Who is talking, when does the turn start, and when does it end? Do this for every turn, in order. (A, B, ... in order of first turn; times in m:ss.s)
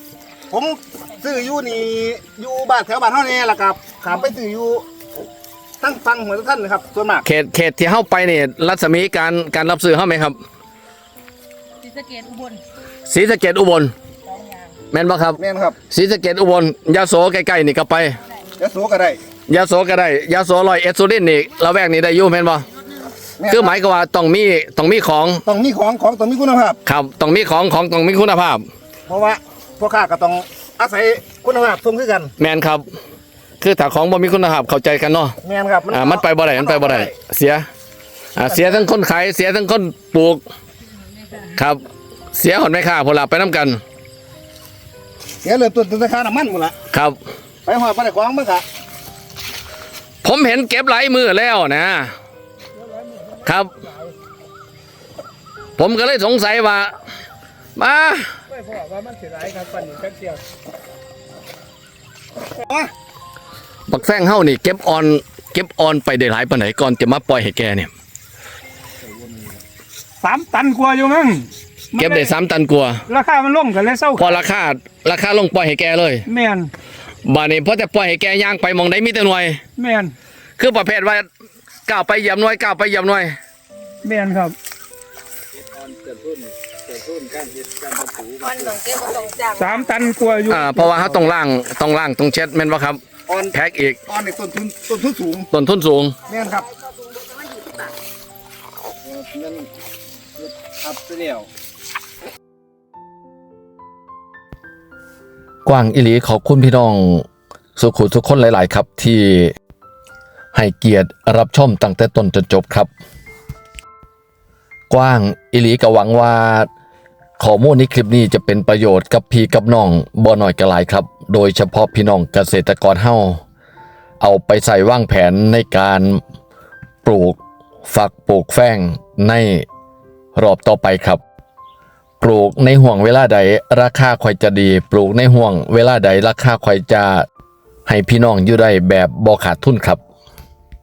0:00.5-0:04.8 A
0:05.8-0:07.2 A
0:07.2-0:10.4 B
0:11.8-0:12.6 C
0:13.1-0:13.9 B
0:14.2-0:14.8 C
0:14.9-0:15.4 B
0:15.4-0:15.8 A
0:15.9-0:18.2 B
0:18.6-0:19.2 A
0:19.5-0:22.7 B
0:23.4-0:23.8 A
0:23.5-0:25.4 B
0:25.5-0:26.8 A
0:26.9-0:28.7 B
0:29.1-0:32.3 A
0:32.4-0:32.9 B
0:33.6-0:35.4 B
0:35.4-0:37.2 A
0:35.9-0:37.7 B
0:38.4-0:40.4 B
0:38.4-0:38.9 A
0:41.6-0:41.8 B
0:42.3-0:43.8 B
0:45.4-0:46.8 A
0:46.9-0:47.2 B
0:47.6-0:48.6 A
0:50.2-0:52.1 B
0:52.8-0:54.1 D
0:55.8-0:56.9 B
0:57.8-0:58.3 B
0:58.5-1:00.4 D
1:02.6-1:02.9 A
1:03.9-1:07.9 B
1:09.1-1:09.6 E
1:10.2-1:12.3 D
1:12.0-1:13.0 B
1:13.1-1:14.4 D
1:14.2-1:16.2 B
1:16.3-1:16.7 D
1:17.2-1:19.6 B
1:19.8-1:20.1 D
1:20.6-1:21.3 B
1:21.9-1:23.4 B
1:24.0-1:24.6 D
1:25.4-1:28.8 E
1:28.4-1:30.1 C
1:29.6-1:31.0 D
1:30.5-1:33.0 B
1:31.0-1:31.2 E
1:33.3-1:35.5 A
1:33.5-1:34.0 B
1:35.5-1:36.2 B
1:36.3-1:36.7 A
1:36.8-1:37.9 C
1:39.0-1:39.7 E
1:40.4-1:41.5 E
1:45.6-1:47.3 F
1:47.8-1:49.5 F
1:50.5-1:52.9 F
1:54.9-1:56.7 F
1:57.4-2:03.4 F
2:04.2-2:06.2 F
2:07.0-2:09.7 F
2:10.4-2:11.2 F
2:12.2-2:17.3 F
2:17.9-2:20.0 F